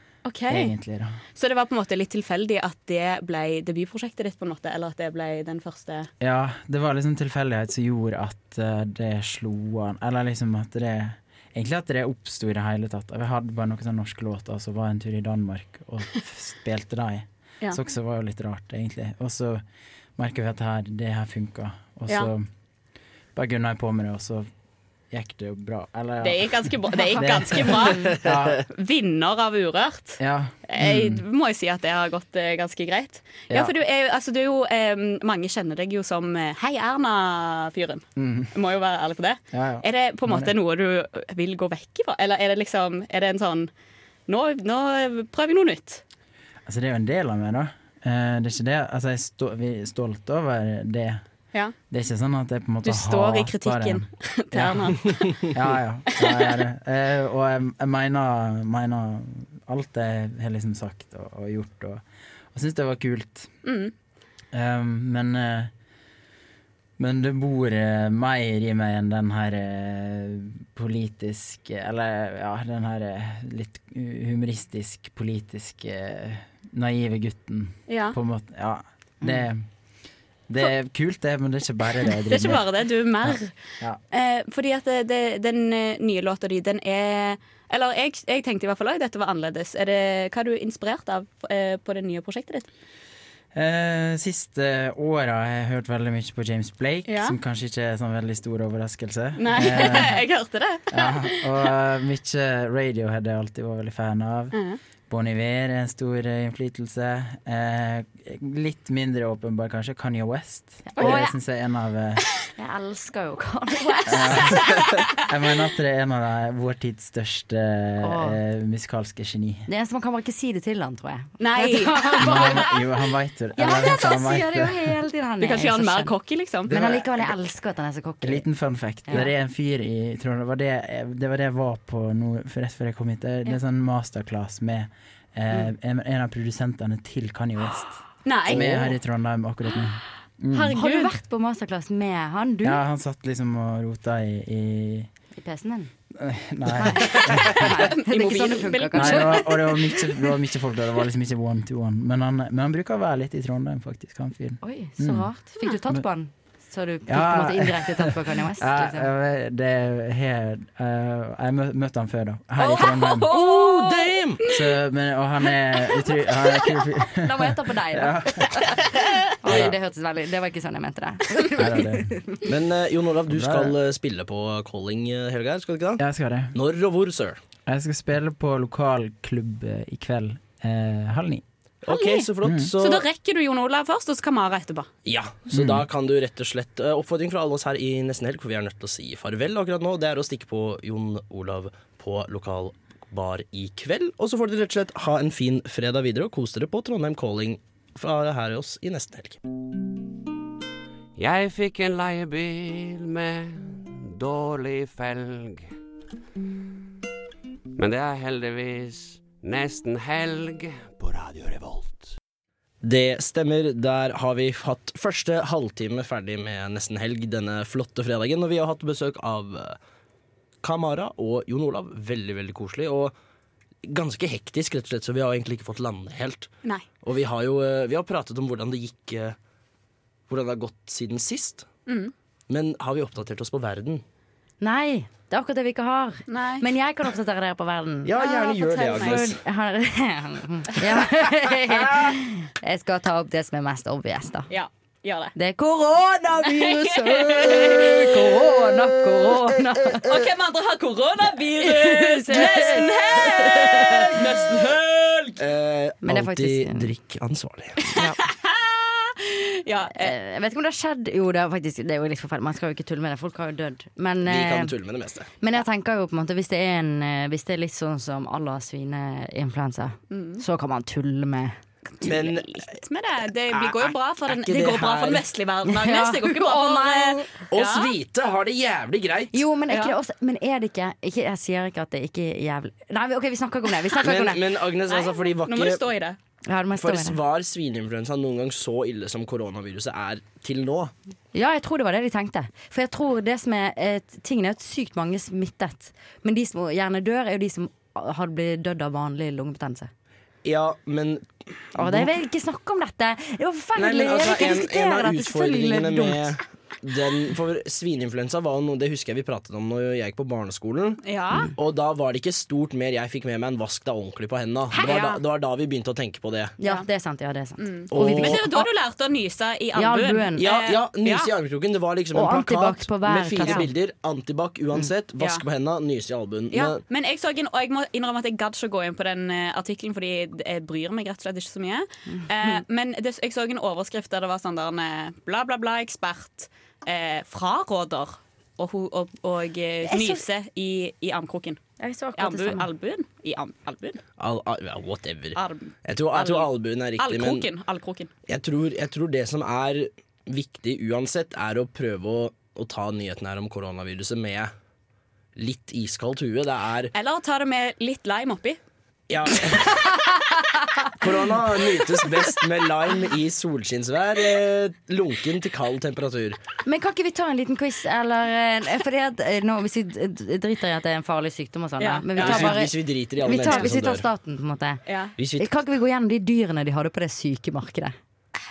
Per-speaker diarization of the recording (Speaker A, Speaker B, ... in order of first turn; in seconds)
Speaker A: 0.2-0.7, 1.4-6.1, 26.2-28.2, 28.7-43.7, 44.3-46.0, 52.8-55.3, 56.1-56.6, 63.6-63.9, 77.9-78.2, 82.2-83.5, 84.1-92.7, 97.1-97.3, 99.4-101.7, 104.5-104.8, 114.4-114.8, 121.4-122.6, 125.4-126.7, 138.2-138.9, 140.6-141.1, 147.9-149.9, 162.6-164.6, 181.9-184.9, 231.9-232.1, 236.3-236.7, 238.2-239.2, 244.5-245.3, 246.4-247.9, 250.0-255.2, 258.0-260.1, 270.1-270.4, 271.9-277.9, 279.7-279.9, 284.9-286.2, 311.0-311.5, 314.7-315.2, 317.6-321.3, 325.2-325.4, 326.5-341.6, 342.1-344.0, 345.4-348.1, 356.9-358.6, 371.8-372.6, 374.9-375.1
Speaker B: 0.5-1.2, 6.2-19.6, 20.2-22.5, 23.3-24.5, 25.1-28.6, 30.2-31.2, 38.2-38.5, 39.5-40.5, 46.6-51.2, 51.9-55.0, 55.5-63.5, 64.5-65.7, 67.0-79.7, 80.5-82.7, 83.2-84.0, 93.5-100.2, 100.9-104.6, 105.1-112.2, 114.0-119.7, 122.2-124.9, 126.7-127.0, 128.2-140.8, 142.6-145.1, 146.1-147.9, 148.9-155.3, 157.1-163.3, 164.5-168.7, 169.4-169.8, 171.6-172.2, 173.3-173.7, 176.0-176.5, 177.7-181.4, 182.4-182.7, 185.5-185.8
Speaker C: 110.9-111.3, 112.6-114.6, 118.0-118.4, 119.7-122.7, 123.6-126.1, 126.7-128.4, 140.5-142.8, 145.4-145.9, 146.7-149.4, 154.6-159.1, 167.2-168.8, 169.4-172.2, 234.6-244.5, 245.3-250.1, 251.6-254.2, 256.0-256.9, 257.9-258.2, 260.0-264.7, 265.4-271.6, 275.6-277.3, 279.3-284.4, 286.4-287.2, 291.3-299.9, 301.7-306.4, 316.6-318.7, 319.7-320.4, 322.1-323.7, 332.1-332.6, 339.9-340.2, 341.8-342.7, 366.6-374.8, 375.4-377.9
Speaker D: 163.3-164.4, 172.4-176.0, 176.5-177.4, 181.8-183.1, 185.1-199.4, 212.8-219.8, 220.6-223.1, 223.8-226.5, 227.0-229.3, 230.3-231.7, 232.5-234.0, 238.0-239.4, 255.4-258.0, 264.2-265.3, 272.0-272.6, 273.5-275.2, 277.5-279.4, 284.0-285.8, 286.8-290.9, 300.4-302.1, 303.8-311.0, 311.5-316.5, 317.9-318.5, 320.4-326.8, 344.2-347.5, 348.3-354.5, 355.4-356.9, 359.1-359.9, 361.0-366.4, 372.1-374.1, 375.2-375.6
Speaker E: 201.2-205.7, 207.8-212.1